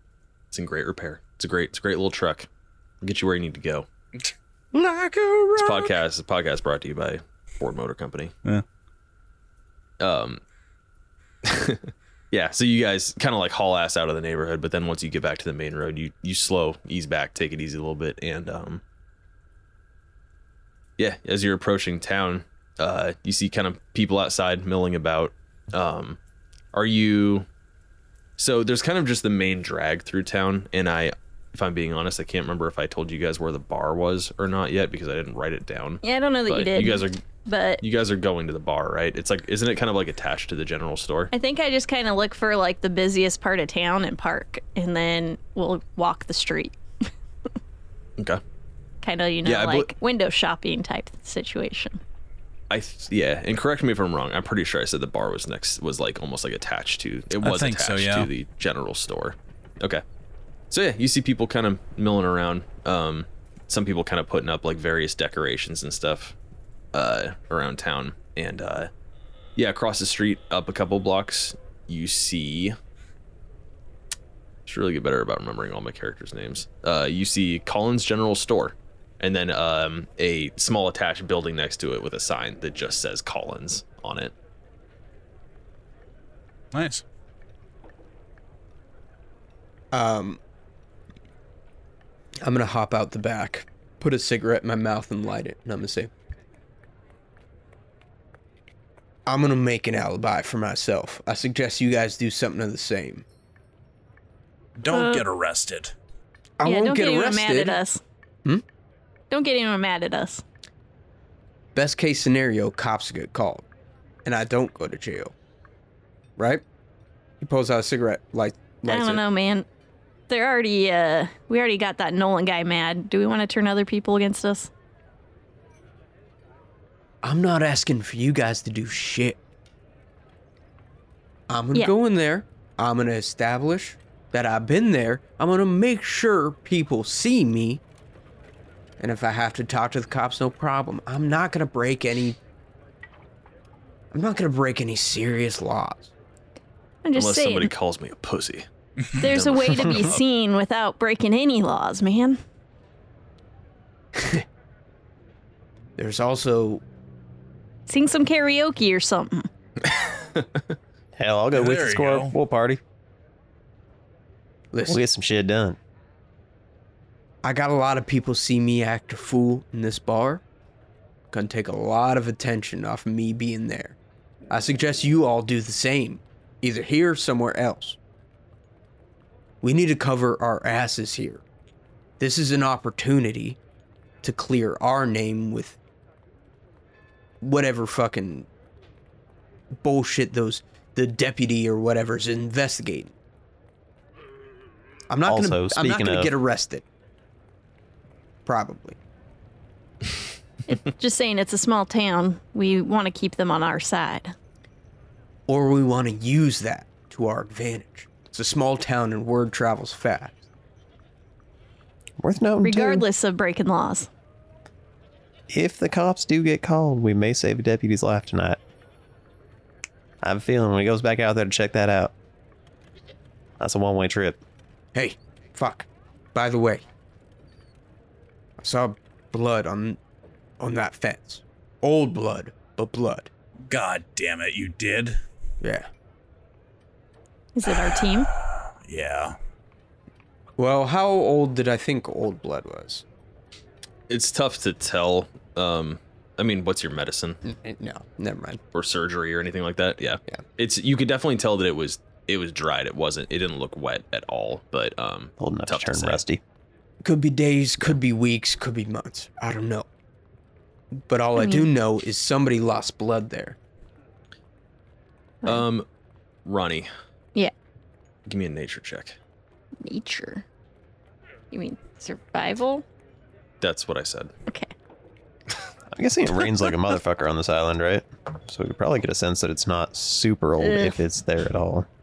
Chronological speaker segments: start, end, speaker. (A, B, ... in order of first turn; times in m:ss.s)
0:00.5-0:02.5 A
0:03.0-0:03.9 A
0:04.7-0:05.9 B
0:05.6-0:08.3 A
0:10.0-0:10.4 A
0:11.4-0:18.8 A
0:21.0-0:26.2 A
0:26.7-0:27.5 A
0:28.4-0:37.2 A
0:36.0-0:37.8 C
0:37.8-0:41.3 A
0:41.3-0:46.8 C
0:49.0-0:52.0 C
0:49.4-0:49.9 A
0:52.7-1:00.0 A
0:57.4-0:58.3 B
1:00.7-1:06.4 A
1:06.9-1:08.9 A
1:09.6-1:12.8 A
1:14.7-1:24.3 A
1:26.7-1:27.0 B
1:29.9-1:30.4 D
1:32.4-1:36.1 D
1:39.3-1:43.2 D
1:44.8-1:46.0 B
1:44.9-1:45.2 C
1:46.6-1:47.8 D
1:46.6-1:48.0 C
1:49.3-1:50.4 C
1:51.8-1:53.6 D
1:54.2-1:55.3 D
1:56.4-1:56.6 D
1:57.4-1:59.2 D
1:58.9-1:59.6 C
2:00.3-2:04.7 C
2:07.2-2:09.4 D
2:11.5-2:17.8 D
2:19.0-2:22.4 D
2:24.1-2:26.1 D
2:27.0-2:27.7 C
2:27.1-2:30.2 A
2:29.2-2:32.4 C
2:34.1-2:34.4 D
2:36.0-2:36.8 D
2:37.9-2:39.5 C
2:39.8-2:40.6 A
2:41.2-2:42.8 E
2:41.5-2:42.4 B
2:44.7-2:45.0 D
2:44.8-2:45.8 E
2:47.4-2:50.4 D
2:51.3-2:54.0 D
2:54.5-2:58.0 D
2:59.6-3:01.4 D
3:02.2-3:03.6 D
3:04.2-3:05.8 D
3:07.4-3:08.5 D
3:09.8-3:13.1 D
3:15.1-3:16.8 D
3:15.2-3:16.3 E
3:18.4-3:19.0 D
3:20.7-3:24.3 C
3:25.5-3:30.4 D
3:32.2-3:33.1 E
3:32.6-3:34.1 C
3:35.5-3:38.6 E
3:40.2-3:42.1 E
3:43.6-3:44.4 E
3:45.0-3:46.8 D
3:48.6-3:50.0 D
3:50.6-3:53.3 D
3:53.7-3:55.2 B
3:55.6-3:55.9 D
3:57.6-3:58.3 C
3:57.7-3:59.4 B
4:00.6-4:03.0 D
4:04.1-4:07.4 A
4:07.4-4:08.6 D
4:08.7-4:16.2 A
4:15.4-4:16.4 E
4:17.0-4:19.9 D
4:21.1-4:23.6 D
4:25.4-4:25.9 A
4:26.4-4:26.9 A
4:28.3-4:29.2 A
4:29.8-4:30.4 C
4:31.5-4:32.8 C
4:33.6-4:34.3 A
4:35.9-4:41.9 E
4:40.6-4:41.0 C